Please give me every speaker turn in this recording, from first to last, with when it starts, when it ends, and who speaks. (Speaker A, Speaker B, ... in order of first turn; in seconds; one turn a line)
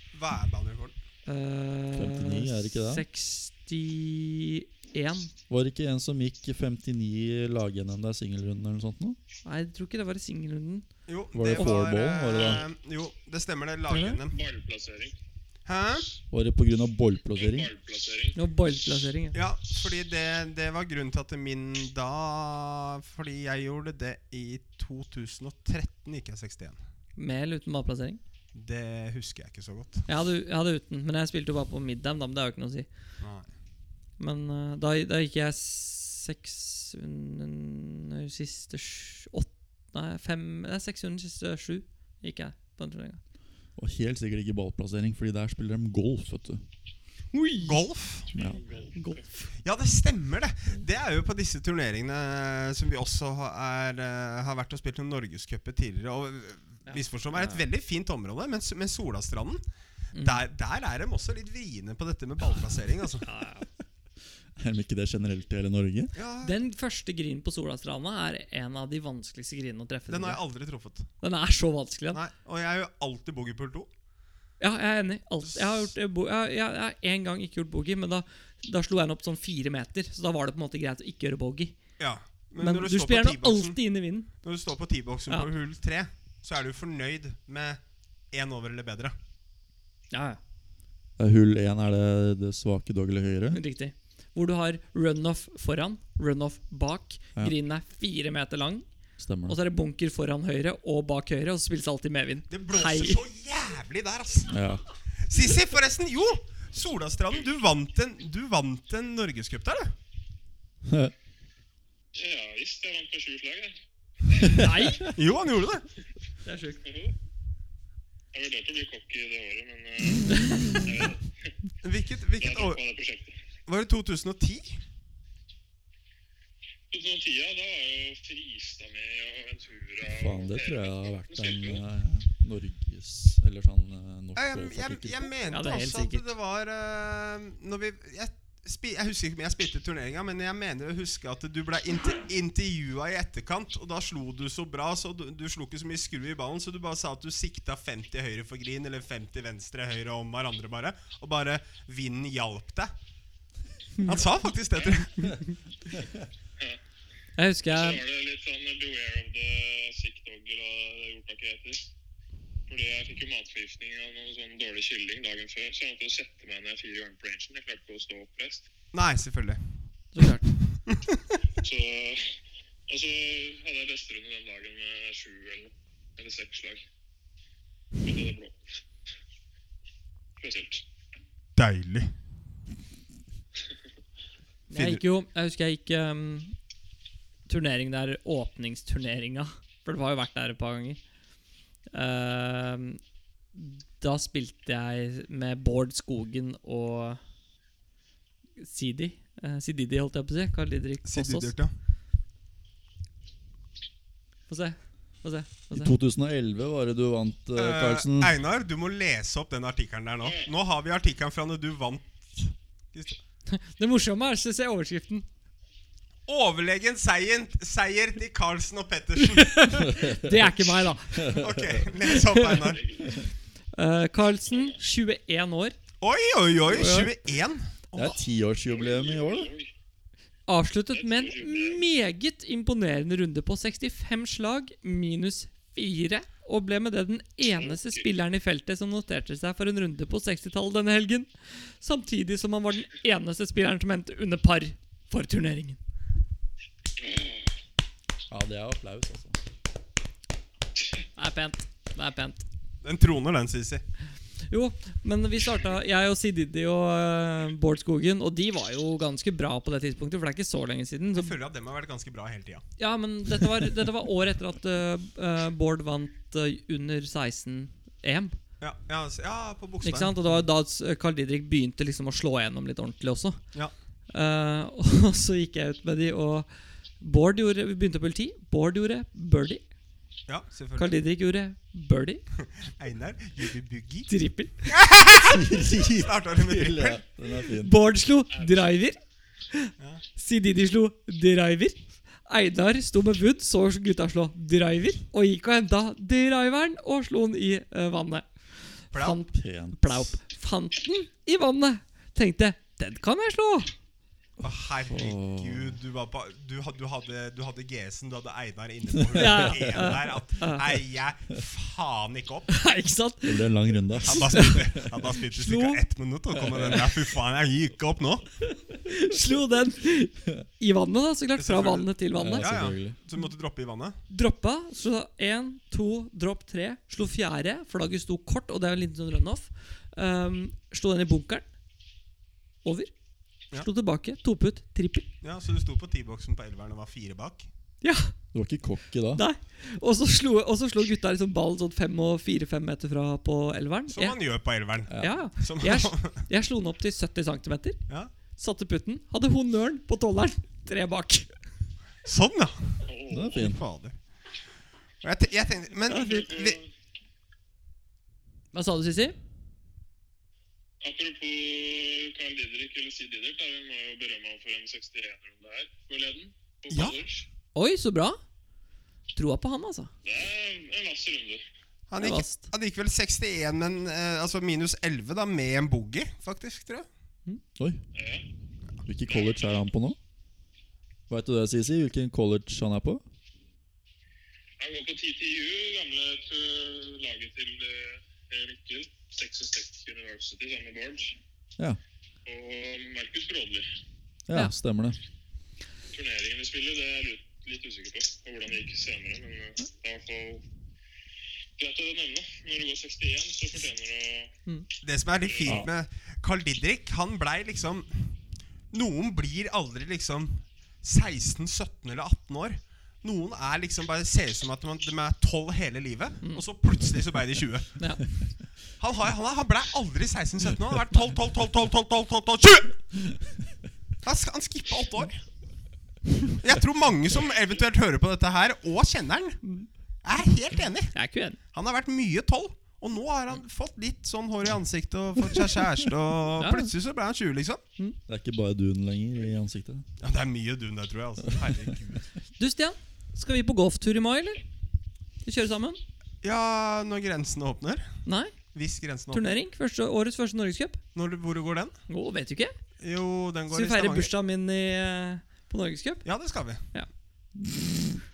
Speaker A: 0.1-0.9
Speaker B: 1.3-5.3
Speaker C: 1.9-3.0
Speaker C: 5.5-9.2
Speaker B: 9.4-10.9
Speaker A: 11.1-14.4
Speaker C: 11.3-12.6
Speaker B: 13.9-14.2
Speaker D: 14.3-15.2
Speaker A: 15.7-16.1
Speaker C: 16.3-17.7
Speaker D: 17.4-18.4
Speaker B: 18.4-19.4
Speaker A: 19.3-26.8
Speaker B: 27.2-28.2
Speaker A: 28.5-30.1
Speaker B: 30.1-32.9
Speaker A: 33.2-33.5
Speaker B: 34.2-43.2
Speaker C: 43.8-46.6
Speaker B: 47.3-47.8
Speaker A: 47.6-48.3
Speaker D: 48.3-49.2
Speaker C: 48.3-48.6
Speaker B: 49.0-49.5
Speaker A: 49.6-59.6
Speaker B: 56.9-57.6
Speaker B: 60.1-60.4
Speaker A: 60.2-63.3
Speaker B: 63.2-63.7
Speaker C: 64.6-66.1
Speaker A: 66.2-66.6
Speaker B: 66.4-70.4
Speaker A: 70.1-71.1
Speaker B: 71.2-72.2
Speaker A: 72.1-73.9
Speaker B: 74.6-81.8
Speaker A: 75.4-75.9
Speaker A: 82.0-83.8
Speaker B: 82.6-84.3
Speaker A: 84.4-87.8
Speaker A: 88.3-89.2
Speaker B: 90.1-90.4
Speaker C: 91.2-93.6
Speaker B: 93.5-98.9
Speaker C: 99.2-99.6
Speaker B: 99.5-103.2
Speaker A: 102.5-104.6
Speaker C: 104.5-104.8
Speaker A: 105.2-110.0
Speaker C: 110.8-111.1
Speaker D: 112.1-113.8
Speaker D: 114.3-114.6
Speaker B: 114.5-115.1
Speaker C: 114.6-115.1
Speaker A: 115.1-115.9
Speaker B: 116.4-116.8
Speaker D: 116.8-117.2
Speaker D: 118.3-121.5
Speaker B: 120.3-120.8
Speaker A: 121.8-122.8
Speaker D: 122.4-123.4
Speaker A: 123.7-124.8
Speaker D: 126.9-131.8
Speaker C: 130.1-135.3
Speaker A: 134.4-152.9
Speaker B: 135.5-136.3
Speaker A: 154.0-155.4
Speaker B: 157.4-158.0
Speaker D: 157.7-161.9
Speaker D: 162.7-168.7
Speaker A: 168.9-169.6
Speaker B: 170.1-170.5
Speaker A: 170.7-171.3
Speaker D: 171.6-176.8
Speaker D: 178.0-178.6
Speaker D: 180.4-180.8
Speaker A: 181.6-182.1
Speaker B: 184.7-186.6
Speaker A: 184.7-185.0
Speaker B: 187.5-191.0
Speaker B: 191.9-193.0
Speaker B: 193.6-197.2
Speaker B: 198.6-201.5
Speaker A: 201.0-201.7
Speaker B: 204.5-205.9
Speaker C: 205.7-208.4
Speaker A: 207.6-213.2
Speaker D: 210.2-210.5
Speaker B: 213.5-215.3
Speaker A: 216.3-219.7
Speaker B: 219.2-221.4
Speaker C: 219.8-220.4
Speaker C: 221.1-221.9
Speaker A: 221.2-223.0
Speaker B: 222.0-222.7
Speaker D: 222.5-223.2
Speaker B: 223.7-225.8
Speaker A: 226.0-228.2
Speaker B: 226.7-227.1
Speaker C: 227.9-229.5
Speaker D: 228.7-229.7
Speaker B: 230.5-245.8
Speaker D: 230.9-231.8
Speaker D: 237.6-238.0
Speaker D: 247.0-247.5
Speaker C: 248.3-249.4
Speaker B: 251.2-252.4
Speaker A: 252.8-253.8
Speaker B: 254.5-261.4
Speaker A: 261.1-262.7
Speaker B: 262.8-268.4
Speaker A: 268.6-270.1
Speaker B: 269.8-273.4
Speaker B: 274.1-276.5
Speaker B: 277.0-279.6
Speaker A: 280.3-281.0
Speaker B: 280.8-282.2
Speaker A: 282.4-284.1
Speaker B: 284.1-284.8
Speaker A: 284.7-287.0
Speaker C: 285.3-287.8
Speaker B: 287.6-289.0
Speaker B: 289.5-298.3
Speaker B: 298.8-303.7
Speaker A: 298.9-299.2
Speaker C: 299.3-300.2
Speaker A: 304.4-312.5
Speaker C: 304.9-305.8
Speaker C: 309.0-309.9
Speaker B: 309.1-310.7
Speaker B: 312.5-313.4
Speaker C: 313.2-314.8
Speaker A: 314.0-318.3
Speaker B: 314.1-314.6
Speaker B: 315.2-315.8
Speaker C: 316.3-317.0
Speaker B: 318.4-322.6
Speaker A: 321.4-324.0
Speaker C: 322.2-323.0
Speaker B: 324.1-331.5
Speaker B: 332.6-332.9
Speaker B: 333.6-335.1
Speaker A: 335.2-337.5
Speaker B: 337.8-338.1
Speaker C: 338.3-339.2
Speaker B: 339.1-344.2
Speaker A: 343.9-346.2
Speaker C: 344.9-345.2
Speaker B: 345.0-347.8
Speaker B: 348.4-351.3
Speaker A: 352.1-354.0
Speaker D: 352.9-353.5
Speaker C: 353.1-353.6
Speaker A: 355.0-356.6
Speaker D: 355.9-356.7
Speaker B: 358.5-359.2
Speaker D: 360.8-367.3
Speaker A: 366.7-367.0
Speaker B: 367.6-368.2
Speaker B: 369.1-369.9
Speaker D: 370.0-371.4
Speaker A: 371.9-376.9
Speaker B: 372.0-372.5
Speaker C: 377.6-377.8
Speaker D: 377.9-378.3
Speaker C: 378.9-380.0
Speaker D: 379.1-379.6
Speaker C: 381.1-383.0
Speaker D: 384.6-391.2
Speaker D: 392.3-393.7
Speaker C: 394.3-395.0
Speaker D: 395.9-400.4
Speaker D: 401.6-404.4
Speaker A: 404.8-408.2
Speaker D: 405.2-405.7
Speaker A: 408.7-417.8
Speaker B: 417.8-418.0
Speaker A: 418.8-422.9
Speaker A: 424.0-425.2
Speaker A: 426.3-429.4
Speaker A: 430.0-430.9
Speaker B: 430.9-431.4
Speaker A: 431.5-437.6
Speaker B: 436.4-436.7
Speaker C: 438.1-439.9
Speaker A: 440.0-442.1
Speaker C: 441.2-441.7
Speaker B: 442.4-444.4
Speaker B: 445.2-445.8
Speaker A: 446.2-447.9
Speaker B: 448.1-448.4
Speaker A: 448.5-449.3
Speaker B: 449.1-450.8
Speaker A: 450.9-451.8
Speaker B: 451.9-452.5
Speaker A: 452.8-454.1
Speaker B: 453.5-456.1
Speaker A: 456.1-456.6
Speaker C: 457.4-458.0